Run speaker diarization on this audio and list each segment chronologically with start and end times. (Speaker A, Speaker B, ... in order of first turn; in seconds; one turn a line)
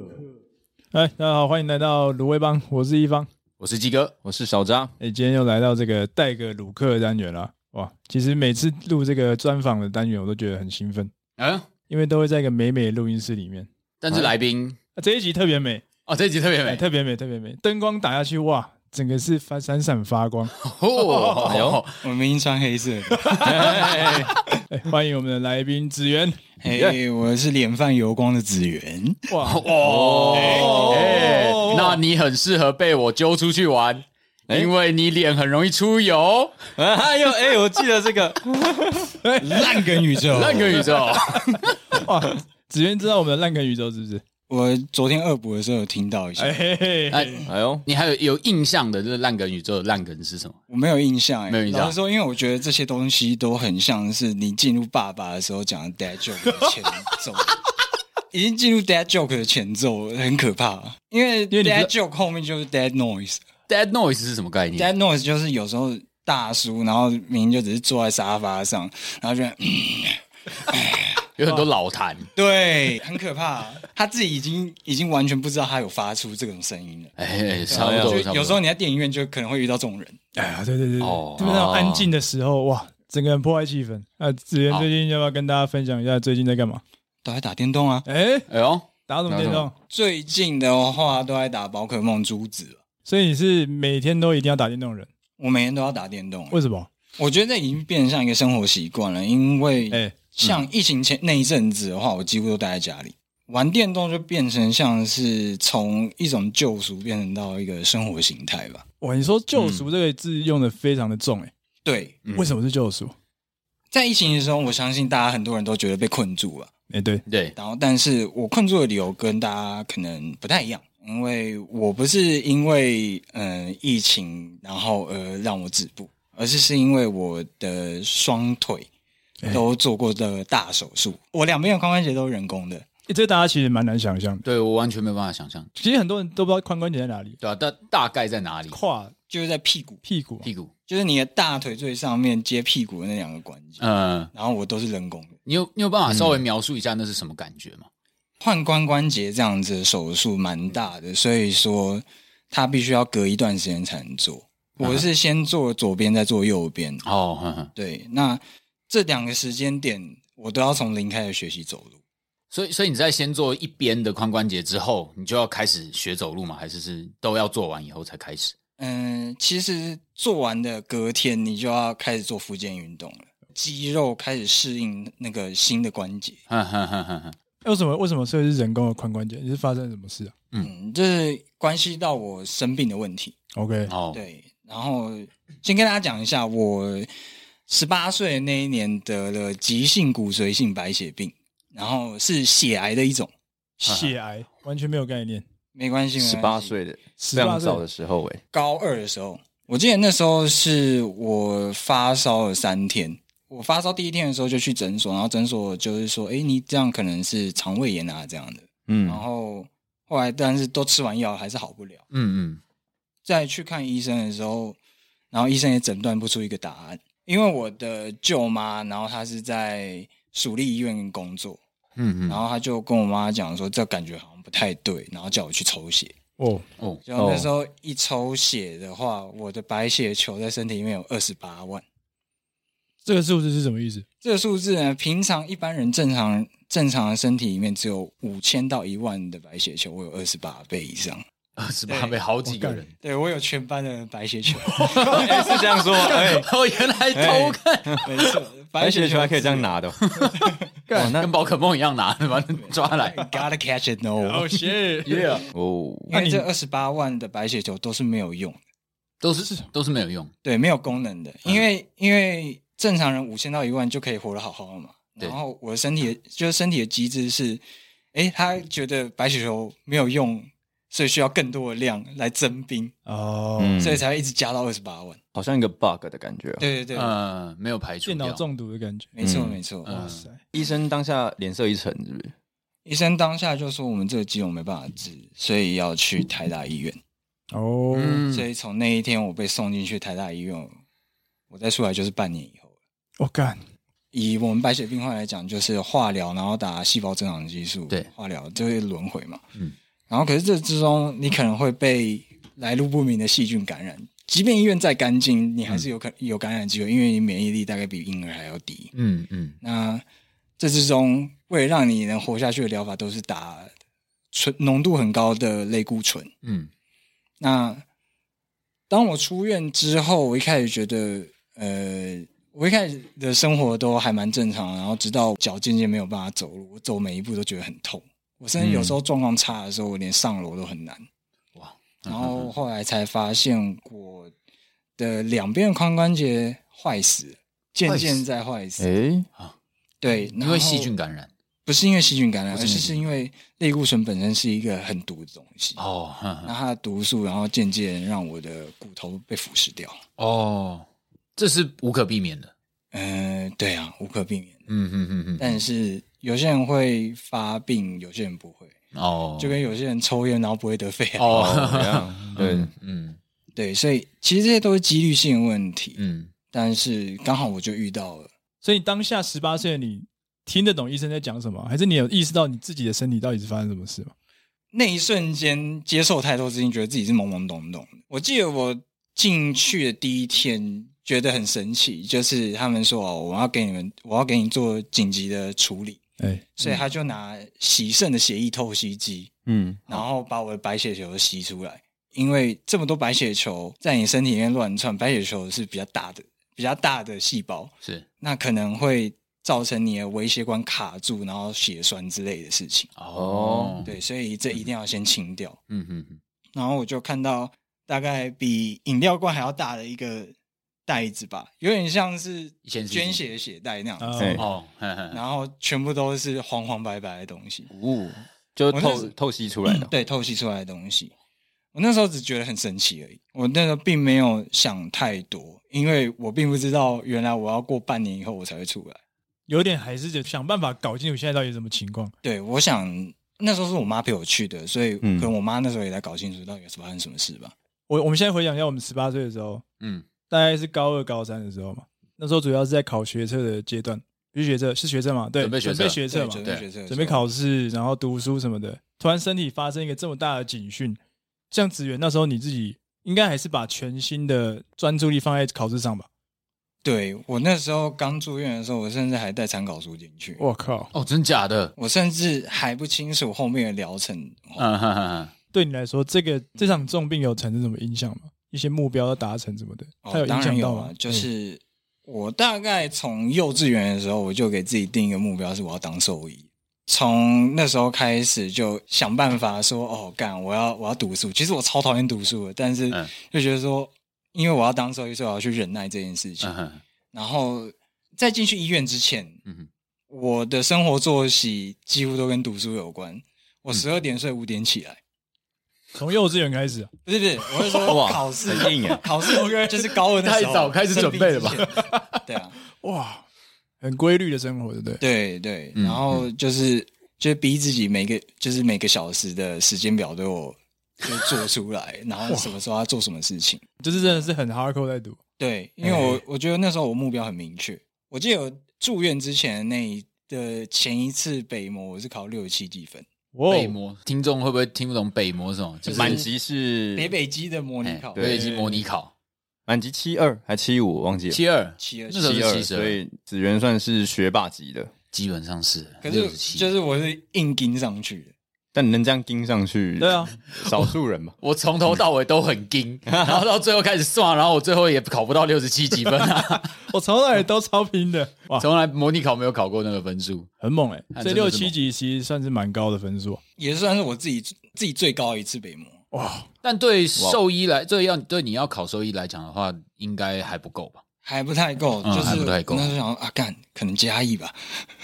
Speaker A: 0.9-3.3
Speaker B: 3.6-4.2
Speaker C: 4.2-4.9
Speaker A: 5.0-11.1
Speaker B: 11.4-11.7
Speaker A: 11.9-13.7
Speaker B: 14.0-14.8
Speaker A: 15.0-15.8
Speaker B: 16.1-16.8
Speaker A: 16.7-20.5
Speaker B: 20.6-22.0
Speaker A: 21.1-21.4
Speaker C: 21.4-21.8
Speaker D: 22.0-24.0
Speaker A: 23.1-24.1
Speaker C: 23.4-24.3
Speaker A: 24.7-26.4
Speaker D: 26.6-29.3
Speaker C: 26.7-27.0
Speaker A: 29.3-29.6
Speaker B: 29.4-36.6
Speaker C: 29.8-31.2
Speaker A: 30.3-32.0
Speaker D: 30.5-30.9
Speaker C: 36.8-39.2
Speaker A: 39.2-40.1
Speaker D: 39.4-41.5
Speaker B: 40.3-41.8
Speaker A: 41.9-44.2
Speaker D: 44.5-46.6
Speaker A: 46.4-47.4
Speaker B: 47.1-50.6
Speaker C: 47.5-47.8
Speaker D: 50.7-57.6
Speaker B: 51.5-52.0
Speaker D: 58.3-63.4
Speaker A: 61.5-61.9
Speaker B: 63.7-64.9
Speaker D: 64.8-71.2
Speaker B: 71.4-72.3
Speaker D: 72.3-77.1
Speaker B: 77.2-78.6
Speaker D: 77.7-80.2
Speaker C: 77.7-78.2
Speaker A: 80.3-86.8
Speaker B: 81.0-81.7
Speaker C: 81.5-82.1
Speaker D: 87.2-88.1
Speaker A: 88.1-88.5
Speaker B: 88.5-89.7
Speaker A: 89.1-89.7
Speaker D: 89.9-92.8
Speaker A: 93.0-95.1
Speaker D: 95.4-96.6
Speaker A: 96.5-96.9
Speaker D: 97.2-108.8
Speaker A: 99.9-100.2
Speaker A: 109.0-111.5
Speaker C: 109.5-109.9
Speaker D: 111.8-112.2
Speaker A: 112.3-113.2
Speaker D: 113.9-116.7
Speaker A: 116.9-117.2
Speaker B: 117.3-117.5
Speaker D: 117.5-128.9
Speaker D: 129.5-132.8
Speaker A: 133.1-134.4
Speaker B: 134.4-135.7
Speaker A: 135.7-137.4
Speaker B: 137.4-138.8
Speaker A: 138.7-139.1
Speaker D: 139.3-140.0
Speaker A: 140.0-140.5
Speaker B: 140.4-140.7
Speaker D: 140.9-145.4
Speaker B: 143.8-144.3
Speaker B: 145.5-147.9
Speaker C: 146.1-146.4
Speaker D: 148.4-157.0
Speaker B: 154.8-155.1
Speaker B: 157.0-157.7
Speaker D: 157.8-162.0
Speaker B: 162.5-168.5
Speaker D: 168.8-176.4
Speaker B: 176.5-177.3
Speaker A: 177.6-180.3
Speaker D: 180.6-183.3
Speaker A: 183.5-183.9
Speaker B: 183.8-184.2
Speaker D: 184.1-187.1
Speaker D: 187.7-193.3
Speaker A: 193.8-195.4
Speaker B: 193.8-194.2
Speaker D: 195.7-196.7
Speaker C: 196.2-198.4
Speaker A: 197.2-197.8
Speaker D: 198.5-212.0
Speaker C: 208.9-209.2
Speaker B: 212.1-212.6
Speaker D: 213.2-214.8
Speaker D: 215.3-221.6
Speaker B: 222.0-222.4
Speaker D: 222.3-226.2
Speaker A: 226.4-226.7
Speaker D: 227.1-231.8
Speaker C: 227.2-227.5
Speaker A: 233.0-234.1
Speaker D: 234.2-241.2
Speaker B: 241.6-242.9
Speaker D: 241.9-242.2
Speaker A: 242.5-242.8
Speaker D: 243.0-245.6
Speaker A: 244.7-245.3
Speaker B: 245.0-248.4
Speaker C: 245.0-246.5
Speaker C: 247.1-248.0
Speaker D: 248.0-249.7
Speaker C: 248.8-250.1
Speaker B: 250.0-250.4
Speaker A: 250.9-251.2
Speaker C: 250.9-251.3
Speaker B: 251.0-253.2
Speaker D: 252.6-254.6
Speaker A: 254.2-255.4
Speaker B: 255.1-255.5
Speaker C: 255.5-256.1
Speaker D: 256.1-258.6
Speaker A: 256.1-256.5
Speaker B: 259.2-260.3
Speaker D: 260.4-267.6
Speaker D: 268.1-272.9
Speaker A: 273.1-273.9
Speaker C: 273.6-274.0
Speaker D: 273.8-275.2
Speaker C: 275.4-276.6
Speaker D: 276.6-277.1
Speaker B: 276.9-278.4
Speaker A: 278.0-279.1
Speaker D: 279.1-280.1
Speaker B: 279.2-280.2
Speaker A: 279.9-280.4
Speaker C: 280.5-282.3
Speaker D: 282.9-287.0
Speaker A: 287.5-288.2
Speaker B: 287.9-288.5
Speaker D: 288.3-290.7
Speaker D: 291.5-292.7
Speaker A: 293.2-293.6
Speaker D: 294.1-299.4
Speaker D: 300.1-308.9
Speaker B: 308.9-309.6
Speaker D: 309.6-310.0
Speaker D: 310.6-313.7
Speaker D: 314.3-316.3
Speaker B: 316.4-316.7
Speaker D: 317.4-317.8
Speaker D: 318.9-331.1
Speaker B: 328.6-329.0
Speaker B: 331.6-332.5
Speaker D: 332.1-334.3
Speaker D: 335.0-338.9
Speaker B: 337.9-338.2
Speaker C: 338.8-339.3
Speaker D: 340.0-340.9
Speaker B: 340.4-341.3
Speaker D: 341.6-345.8
Speaker B: 342.5-343.0
Speaker B: 345.8-346.5
Speaker D: 346.4-350.0
Speaker B: 350.2-352.5
Speaker D: 352.9-354.6
Speaker B: 354.7-355.6
Speaker D: 355.4-358.8
Speaker B: 358.9-359.6
Speaker D: 359.4-361.4
Speaker B: 361.2-363.2
Speaker C: 361.3-362.7
Speaker D: 363.6-366.0
Speaker B: 366.0-366.3
Speaker D: 366.5-368.3
Speaker A: 368.6-374.1
Speaker D: 374.7-386.0
Speaker A: 386.2-386.5
Speaker D: 386.6-389.3
Speaker C: 389.5-390.0
Speaker D: 389.9-402.9
Speaker B: 403.0-403.9
Speaker C: 403.1-403.9
Speaker D: 403.9-405.6
Speaker B: 405.7-406.2
Speaker D: 406.5-410.3
Speaker D: 410.9-414.4
Speaker B: 412.6-413.2
Speaker A: 414.0-414.4
Speaker C: 414.2-414.4
Speaker B: 414.4-415.2
Speaker D: 415.1-417.7
Speaker C: 417.7-419.9
Speaker D: 418.7-419.1
Speaker D: 419.8-421.1
Speaker D: 421.7-429.0
Speaker A: 429.5-432.1
Speaker D: 432.2-437.5
Speaker C: 435.0-435.3
Speaker A: 437.9-439.6
Speaker B: 439.8-440.1
Speaker A: 440.3-451.0
Speaker B: 445.4-446.6
Speaker D: 446.1-447.2
Speaker A: 451.5-456.1
Speaker D: 456.8-460.4
Speaker A: 460.4-460.9
Speaker B: 460.9-461.7
Speaker D: 461.8-464.7
Speaker B: 464.6-465.3
Speaker A: 465.5-471.2
Speaker D: 470.0-486.5
Speaker B: 486.4-486.8
Speaker D: 487.1-489.4
Speaker D: 490.1-495.0
Speaker A: 495.9-496.9
Speaker D: 497.1-502.6
Speaker A: 497.6-497.9
Speaker C: 497.8-499.0
Speaker A: 499.2-499.9
Speaker B: 500.2-501.7
Speaker A: 501.6-502.2
Speaker A: 502.8-503.2
Speaker A: 503.8-505.0
Speaker D: 505.0-514.3
Speaker B: 505.8-506.2
Speaker A: 513.8-515.2
Speaker D: 515.4-523.1
Speaker A: 515.8-516.2
Speaker A: 523.3-523.8
Speaker B: 523.5-526.2
Speaker D: 525.9-526.2
Speaker C: 525.9-527.1
Speaker D: 527.0-528.5
Speaker B: 527.8-529.1
Speaker A: 528.2-528.8
Speaker C: 529.7-531.4
Speaker B: 531.3-533.0
Speaker D: 531.8-532.4
Speaker C: 532.2-534.9
Speaker B: 535.1-536.7
Speaker D: 536.0-538.3
Speaker C: 538.7-541.4
Speaker A: 540.0-540.9
Speaker B: 541.4-546.8
Speaker C: 543.1-543.4
Speaker A: 546.8-548.7
Speaker B: 548.6-550.5
Speaker A: 550.6-553.4
Speaker B: 551.1-551.8
Speaker D: 553.6-556.0
Speaker A: 556.1-556.5
Speaker B: 556.6-561.0
Speaker D: 561.2-564.9
Speaker B: 562.0-563.0